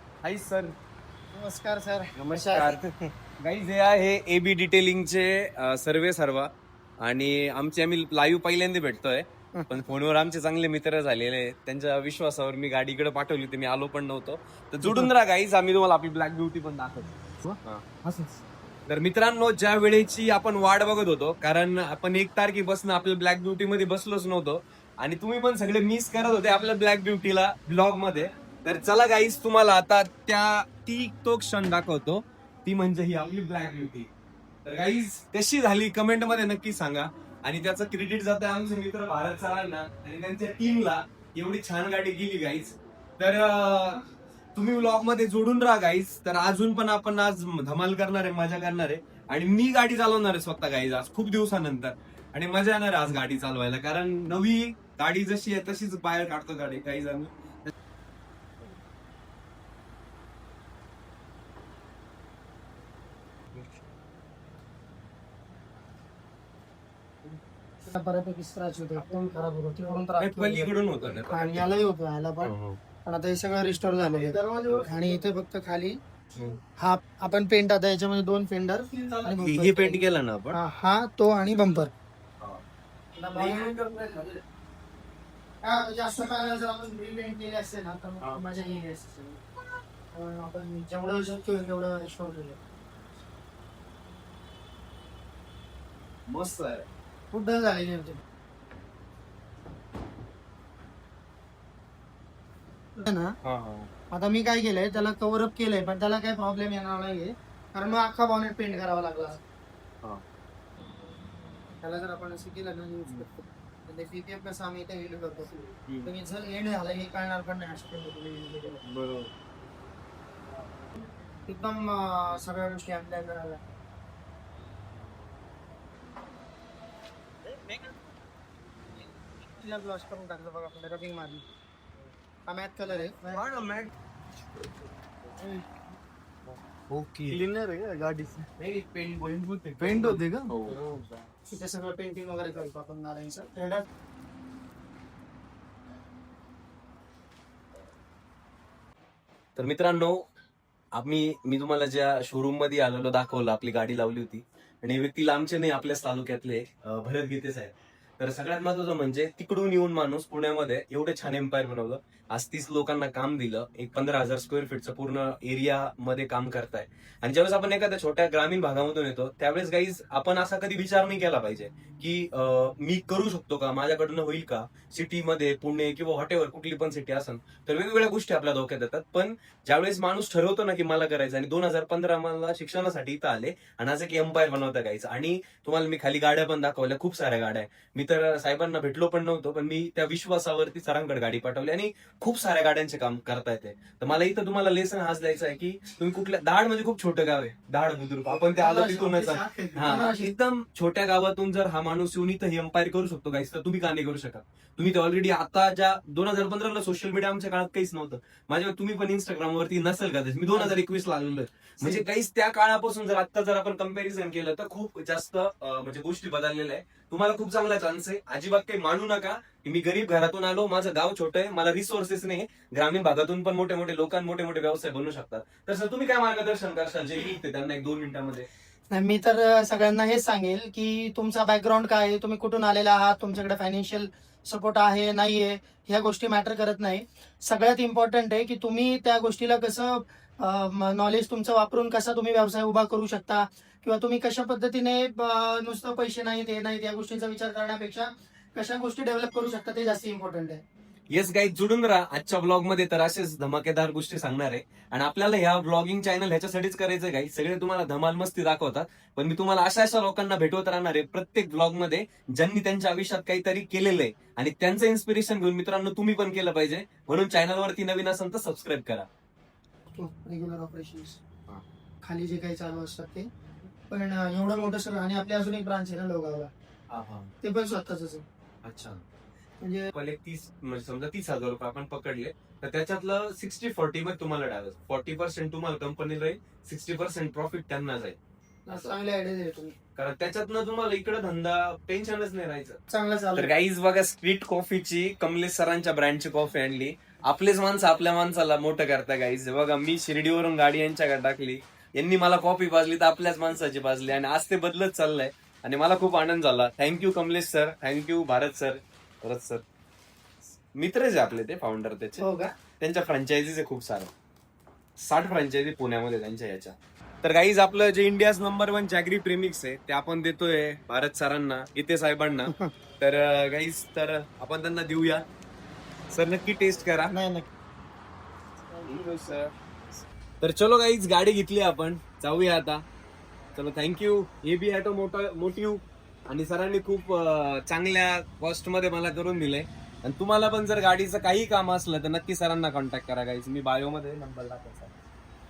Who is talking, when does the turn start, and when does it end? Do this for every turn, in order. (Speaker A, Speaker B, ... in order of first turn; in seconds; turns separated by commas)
Speaker A: 0.2-0.8, Speaker B: 1.3-3.1, Speaker A: 2.1-2.8, Speaker A: 3.4-17.1, Speaker A: 17.6-17.9, Speaker A: 18.9-34.1, Speaker A: 34.7-44.0, Speaker A: 44.5-57.3, Speaker B: 67.8-70.7, Speaker A: 70.2-71.7, Speaker B: 71.3-72.5, Speaker A: 72.4-72.8, Speaker B: 73.0-76.0, Speaker B: 76.8-81.9, Speaker A: 78.9-80.6, Speaker B: 83.2-83.7, Speaker A: 83.3-84.4, Speaker B: 85.6-89.4, Speaker B: 90.1-92.6, Speaker A: 96.3-96.9, Speaker B: 97.3-98.2, Speaker B: 103.0-103.3, Speaker A: 103.4-103.9, Speaker B: 104.1-109.4, Speaker B: 111.8-115.5, Speaker A: 115.9-116.1, Speaker B: 116.0-118.8, Speaker A: 118.8-119.3, Speaker B: 121.5-123.6, Speaker B: 129.6-131.4, Speaker B: 132.5-133.5, Speaker A: 133.3-133.9, Speaker C: 137.3-138.4, Speaker A: 138.6-140.8, Speaker C: 139.8-140.8, Speaker B: 141.5-143.9, Speaker A: 149.6-150.2, Speaker A: 150.9-228.5, Speaker B: 198.4-200.3, Speaker B: 228.9-250.6, Speaker A: 251.1-269.1, Speaker B: 269.9-271.2, Speaker B: 272.0-273.3, Speaker B: 273.8-276.5, Speaker A: 276.9-277.3, Speaker B: 277.4-278.2, Speaker A: 278.6-279.0, Speaker B: 279.6-279.9, Speaker A: 279.9-288.2, Speaker B: 288.7-289.8, Speaker A: 290.0-292.8, Speaker B: 292.9-293.5, Speaker A: 293.4-309.6, Speaker A: 310.8-312.2, Speaker B: 312.2-312.5, Speaker A: 312.8-314.1, Speaker A: 315.0-325.2, Speaker A: 326.1-327.1, Speaker B: 327.1-327.5, Speaker A: 328.9-329.5, Speaker A: 330.4-332.8, Speaker A: 333.6-344.9